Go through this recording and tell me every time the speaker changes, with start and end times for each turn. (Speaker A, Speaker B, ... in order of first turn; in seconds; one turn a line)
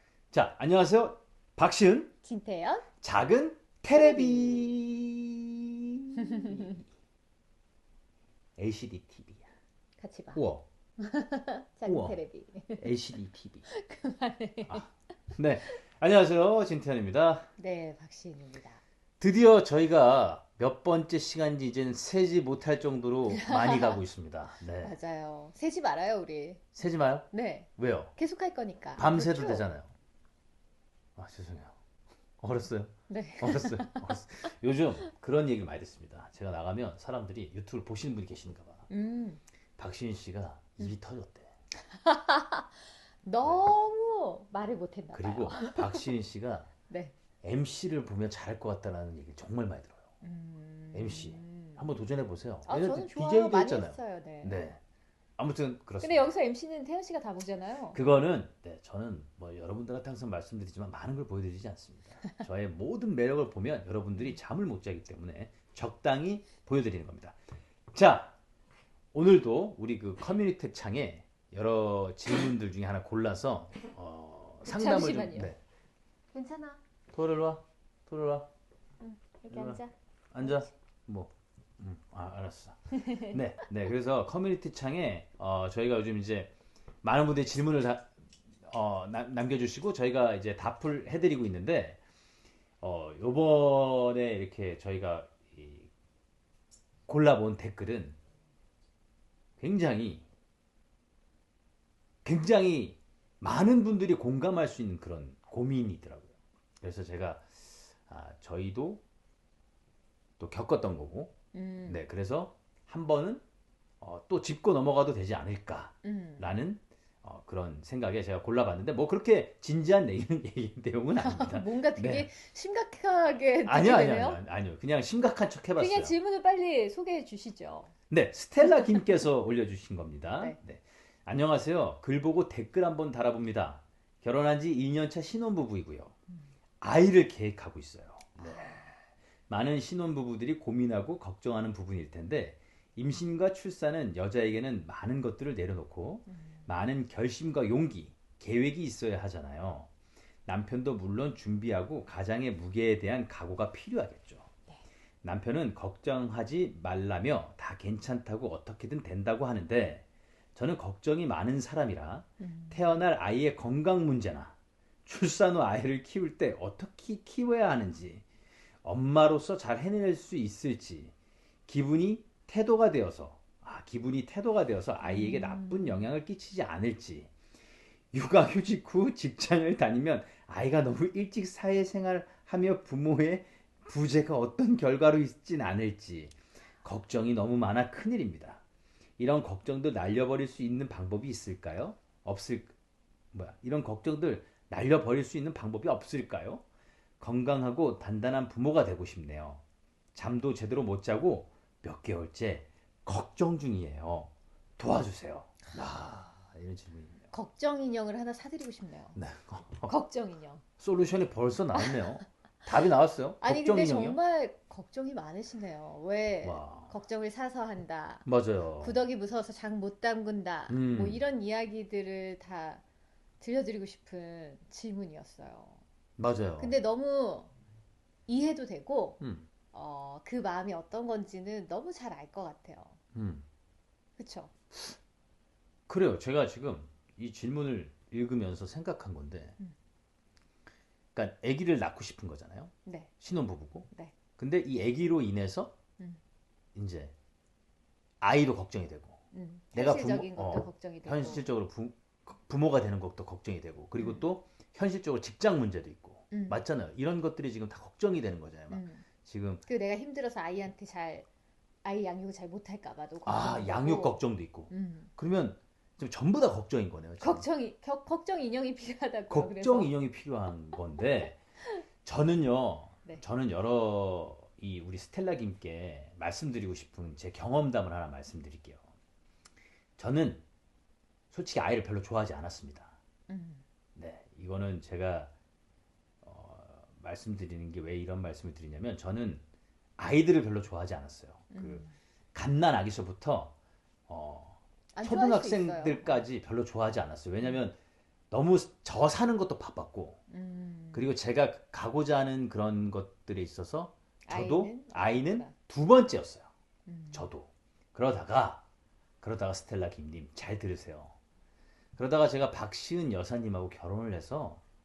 Speaker A: 0.3-2.1
Speaker B: 2.2-2.9
Speaker A: 3.0-6.7
Speaker B: 3.9-4.7
Speaker B: 6.2-6.8
Speaker A: 8.6-9.4
Speaker B: 10.0-10.4
Speaker A: 10.3-10.6
Speaker B: 11.0-12.9
Speaker A: 11.8-12.2
Speaker A: 12.8-13.7
Speaker B: 13.7-14.9
Speaker A: 14.7-17.5
Speaker B: 17.6-18.8
Speaker A: 19.2-24.9
Speaker B: 23.3-24.0
Speaker B: 24.8-26.6
Speaker A: 26.7-28.1
Speaker B: 27.3-29.7
Speaker A: 29.0-29.9
Speaker A: 31.1-31.8
Speaker A: 32.4-38.9
Speaker B: 33.1-34.2
Speaker B: 38.9-39.4
Speaker A: 39.8-41.5
Speaker B: 41.8-46.1
Speaker A: 43.4-43.7
Speaker A: 45.1-46.7
Speaker B: 46.9-47.1
Speaker A: 47.4-50.0
Speaker B: 50.2-51.8
Speaker A: 50.9-54.8
Speaker B: 52.6-54.6
Speaker A: 55.4-56.3
Speaker B: 56.0-58.0
Speaker A: 57.9-67.4
Speaker A: 67.9-68.3
Speaker A: 69.1-75.6
Speaker B: 74.6-75.5
Speaker B: 76.3-76.8
Speaker A: 77.1-78.5
Speaker B: 79.0-80.7
Speaker A: 79.5-79.8
Speaker A: 80.3-88.1
Speaker B: 82.9-83.3
Speaker A: 88.6-92.0
Speaker A: 92.8-95.9
Speaker A: 97.1-98.2
Speaker A: 99.6-100.2
Speaker A: 102.2-109.0
Speaker A: 110.4-111.3
Speaker B: 111.5-112.0
Speaker A: 111.8-113.4
Speaker A: 114.0-122.3
Speaker B: 116.0-116.6
Speaker B: 121.2-124.4
Speaker A: 123.6-126.1
Speaker B: 125.8-127.9
Speaker A: 128.1-136.1
Speaker A: 136.8-138.8
Speaker B: 138.4-138.9
Speaker A: 139.5-149.9
Speaker B: 146.3-146.6
Speaker A: 150.4-154.5
Speaker A: 155.2-164.5
Speaker B: 162.4-163.0
Speaker A: 165.1-168.2
Speaker A: 168.8-171.1
Speaker A: 171.7-177.3
Speaker B: 175.0-176.1
Speaker A: 178.1-188.6
Speaker A: 189.2-192.7
Speaker A: 193.3-196.6
Speaker A: 197.2-199.6
Speaker A: 200.1-207.3
Speaker B: 207.3-209.2
Speaker A: 209.1-209.9
Speaker B: 209.9-210.6
Speaker A: 210.8-214.2
Speaker B: 211.7-212.2
Speaker B: 213.4-218.2
Speaker A: 216.4-216.9
Speaker A: 218.2-219.0
Speaker B: 218.8-222.8
Speaker A: 220.7-221.2
Speaker B: 223.4-225.8
Speaker A: 226.2-226.8
Speaker B: 226.6-227.5
Speaker B: 228.3-229.2
Speaker A: 229.2-229.5
Speaker B: 229.7-233.0
Speaker A: 233.1-233.4
Speaker B: 234.2-234.5
Speaker A: 235.9-239.6
Speaker A: 241.1-245.7
Speaker B: 242.8-243.1
Speaker A: 246.7-247.1
Speaker A: 248.2-249.2
Speaker B: 249.3-251.4
Speaker A: 249.7-259.6
Speaker B: 254.0-254.2
Speaker B: 256.3-256.6
Speaker B: 258.7-259.0
Speaker B: 259.6-261.3
Speaker B: 261.8-265.1
Speaker A: 263.2-267.4
Speaker B: 267.2-269.9
Speaker A: 269.3-271.4
Speaker A: 272.0-278.8
Speaker A: 280.0-280.4
Speaker A: 281.3-282.9
Speaker B: 283.3-283.6
Speaker A: 283.9-285.3
Speaker A: 286.2-289.4
Speaker A: 290.0-293.5
Speaker B: 291.5-291.9
Speaker A: 294.1-297.8
Speaker B: 294.9-296.2
Speaker A: 298.3-300.2
Speaker B: 300.3-301.1
Speaker A: 300.9-306.5
Speaker B: 304.2-305.5
Speaker B: 306.9-307.3
Speaker A: 307.1-308.6
Speaker A: 309.2-311.1
Speaker A: 312.0-314.6